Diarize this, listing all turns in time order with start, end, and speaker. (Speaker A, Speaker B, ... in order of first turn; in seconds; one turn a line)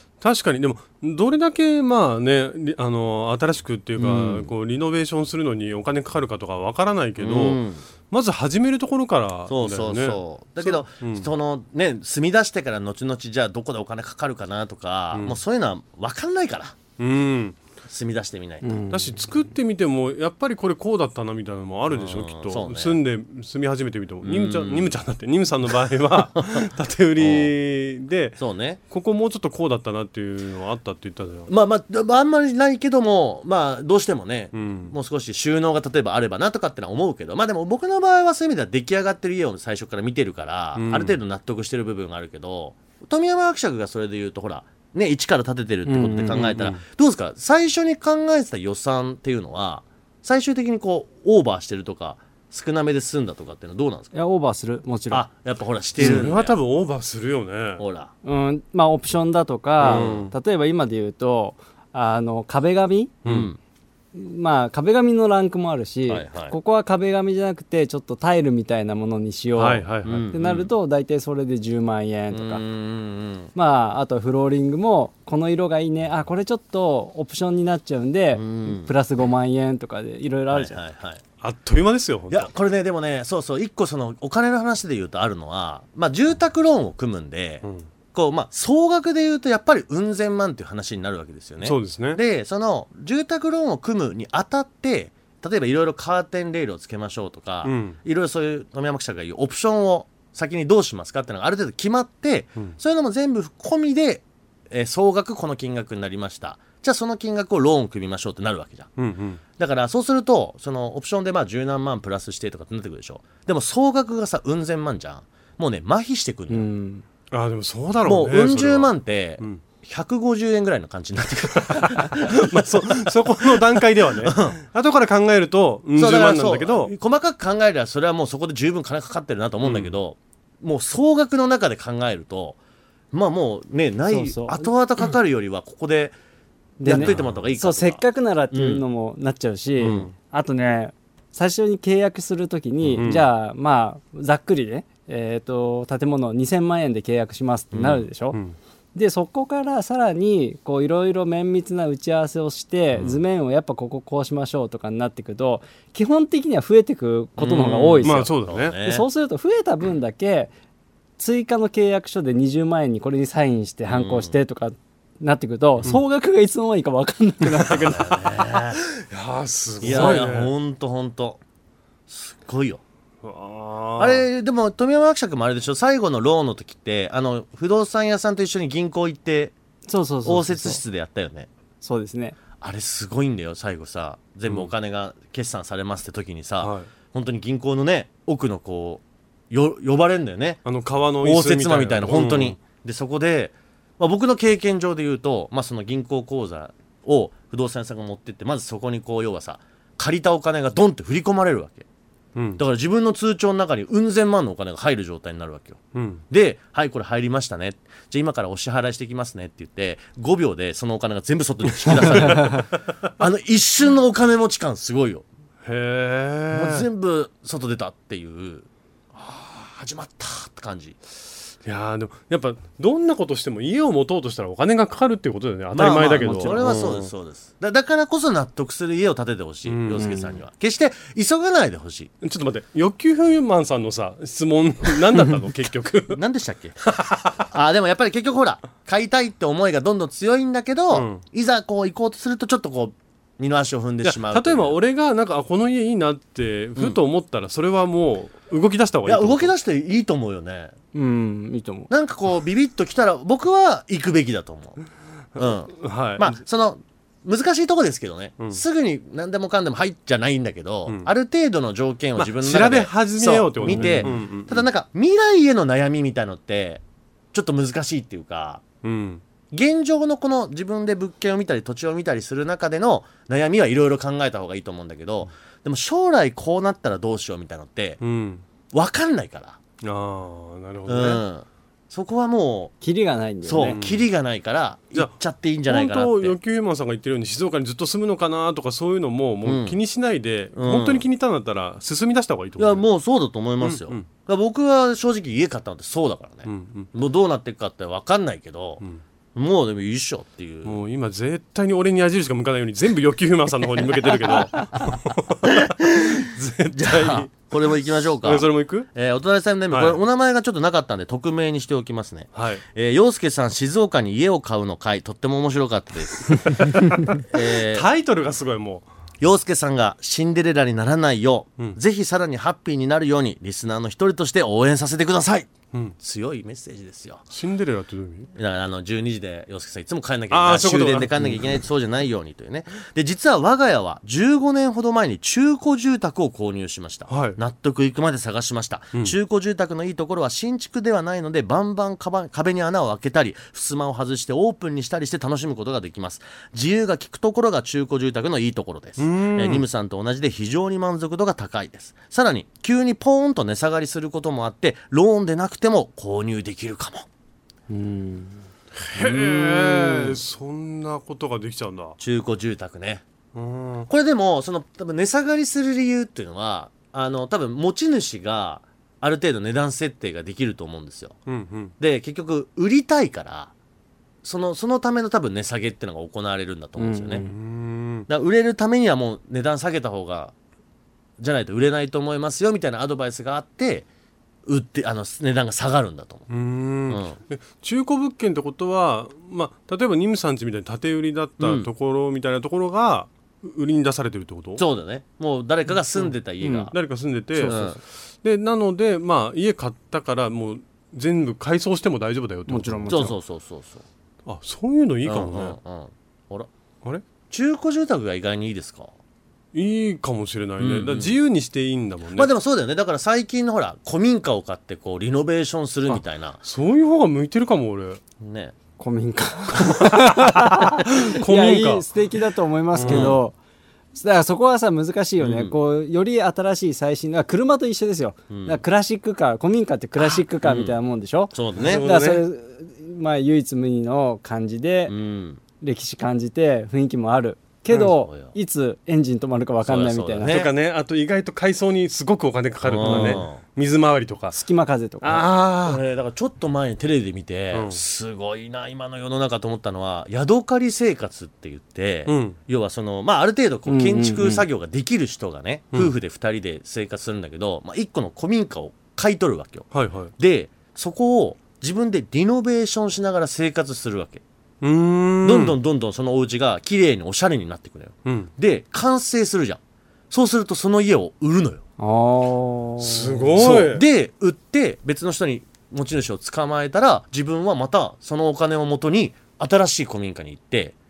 Speaker A: 0.2-11.3
Speaker B: 4.0-4.5
Speaker B: 7.2-7.8
Speaker B: 9.5-16.8
Speaker A: 17.0-17.6
Speaker B: 17.9-18.8
Speaker C: 18.6-19.2
Speaker A: 18.9-28.4
Speaker B: 21.9-23.0
Speaker B: 24.2-24.9
Speaker B: 26.4-26.6
Speaker B: 27.2-27.5
Speaker B: 28.4-28.8
Speaker A: 28.9-31.5
Speaker B: 31.5-54.1
Speaker A: 34.5-35.0
Speaker A: 40.8-41.2
Speaker C: 45.9-46.6
Speaker A: 46.4-46.8
Speaker C: 54.1-55.3
Speaker B: 55.1-56.6
Speaker A: 56.0-57.8
Speaker B: 57.8-58.1
Speaker C: 58.2-63.2
Speaker A: 59.8-60.3
Speaker B: 59.8-60.3
Speaker A: 63.2-63.5
Speaker B: 63.3-63.6
Speaker C: 64.1-72.6
Speaker B: 66.1-66.5
Speaker A: 69.6-70.3
Speaker B: 70.0-70.7
Speaker B: 72.3-73.5
Speaker C: 73.5-80.8
Speaker B: 78.3-78.9
Speaker B: 80.5-81.2
Speaker A: 81.4-82.5
Speaker B: 82.3-108.9
Speaker A: 91.6-92.2
Speaker A: 97.6-98.0
Speaker A: 109.0-109.4
Speaker B: 109.6-116.7
Speaker C: 116.5-117.0
Speaker A: 117.3-119.6
Speaker B: 118.0-124.6
Speaker A: 121.7-126.9
Speaker B: 126.0-132.6
Speaker A: 129.6-129.9
Speaker B: 133.1-136.2
Speaker C: 134.1-134.7
Speaker C: 136.8-148.4
Speaker B: 136.8-138.8
Speaker A: 137.0-137.3
Speaker B: 139.8-140.1
Speaker A: 143.0-143.3
Speaker B: 147.7-148.1
Speaker C: 148.9-158.3
Speaker B: 157.4-159.1
Speaker A: 158.0-158.8
Speaker C: 158.8-160.5
Speaker C: 161.2-168.3
Speaker B: 163.9-164.3
Speaker B: 167.9-168.8
Speaker A: 169.0-170.5
Speaker B: 169.8-171.4
Speaker C: 169.8-170.2
Speaker B: 172.1-172.8
Speaker A: 173.2-174.2
Speaker B: 174.0-179.5
Speaker C: 179.9-180.8
Speaker B: 180.2-181.5
Speaker C: 181.8-182.4
Speaker B: 182.6-190.6
Speaker A: 186.6-186.9
Speaker A: 190.7-192.6
Speaker B: 191.2-201.9
Speaker A: 202.4-202.6
Speaker B: 202.6-215.2
Speaker A: 205.9-206.2
Speaker A: 215.6-216.9
Speaker B: 216.5-221.0
Speaker A: 221.6-227.1
Speaker B: 225.7-232.1
Speaker C: 226.2-226.7
Speaker A: 229.7-230.2
Speaker C: 230.0-230.3
Speaker A: 232.2-236.2
Speaker B: 236.1-236.8
Speaker A: 236.9-237.4
Speaker B: 237.5-244.8
Speaker A: 240.9-241.2
Speaker A: 244.0-249.5
Speaker B: 249.1-250.7
Speaker C: 250.9-251.9
Speaker B: 251.9-254.8
Speaker B: 255.4-268.6
Speaker A: 255.4-256.4
Speaker A: 262.2-264.6
Speaker C: 263.6-264.1
Speaker A: 268.8-269.2
Speaker B: 269.5-278.0
Speaker A: 278.0-278.4
Speaker B: 278.7-279.6
Speaker A: 279.8-281.2
Speaker B: 280.9-282.7
Speaker C: 282.8-283.8
Speaker B: 283.4-286.4
Speaker A: 283.6-284.1
Speaker A: 285.7-292.9
Speaker B: 289.4-289.8
Speaker B: 290.6-291.1
Speaker B: 292.6-298.8
Speaker A: 293.6-294.1
Speaker A: 296.5-296.9
Speaker B: 299.4-300.8
Speaker A: 300.6-307.5
Speaker B: 305.4-317.9
Speaker A: 308.2-308.9
Speaker A: 309.7-310.0
Speaker A: 312.4-312.6
Speaker A: 316.5-318.9
Speaker B: 319.2-327.2
Speaker A: 327.3-328.3
Speaker B: 328.4-357.1
Speaker A: 330.3-331.6
Speaker A: 337.1-337.4
Speaker A: 349.0-349.7
Speaker C: 357.7-358.4
Speaker A: 358.8-362.0
Speaker B: 359.0-360.2
Speaker B: 362.0-363.0
Speaker A: 363.4-363.9
Speaker B: 363.9-371.2
Speaker A: 371.3-371.7
Speaker B: 371.8-373.5
Speaker B: 374.2-377.2
Speaker C: 376.8-377.3
Speaker A: 377.2-378.1
Speaker B: 378.1-380.3
Speaker B: 381.2-383.9
Speaker B: 384.5-386.3
Speaker A: 386.3-394.6
Speaker B: 386.9-387.2
Speaker B: 391.4-391.7
Speaker B: 394.6-396.7
Speaker C: 396.4-396.7
Speaker A: 396.7-403.1
Speaker C: 397.4-397.7
Speaker B: 397.4-397.8
Speaker C: 402.5-403.1
Speaker B: 402.9-403.9
Speaker A: 404.3-405.6
Speaker B: 405.1-406.5
Speaker B: 407.3-408.9
Speaker A: 409.5-412.3
Speaker B: 410.6-411.2
Speaker B: 412.1-416.4
Speaker A: 415.9-418.0
Speaker B: 418.2-418.6
Speaker C: 418.8-423.4
Speaker A: 419.8-421.9
Speaker A: 422.8-423.2
Speaker B: 422.8-423.2
Speaker C: 423.9-434.9
Speaker B: 425.2-425.6
Speaker B: 428.3-428.6
Speaker B: 430.0-430.8
Speaker B: 431.3-431.9
Speaker A: 431.6-432.2
Speaker B: 434.9-435.4
Speaker C: 435.6-440.4
Speaker B: 437.8-438.3
Speaker B: 439.6-440.5
Speaker A: 440.2-444.4
Speaker B: 442.6-443.4
Speaker C: 442.8-443.2
Speaker C: 444.3-445.3
Speaker A: 445.0-445.8
Speaker B: 445.6-464.2
Speaker A: 447.5-447.8
Speaker A: 452.1-452.4
Speaker C: 453.7-454.4
Speaker A: 459.7-460.1
Speaker A: 464.6-465.6
Speaker B: 465.2-469.6
Speaker B: 470.1-471.6
Speaker C: 471.8-473.3
Speaker A: 472.8-473.8
Speaker B: 473.4-480.8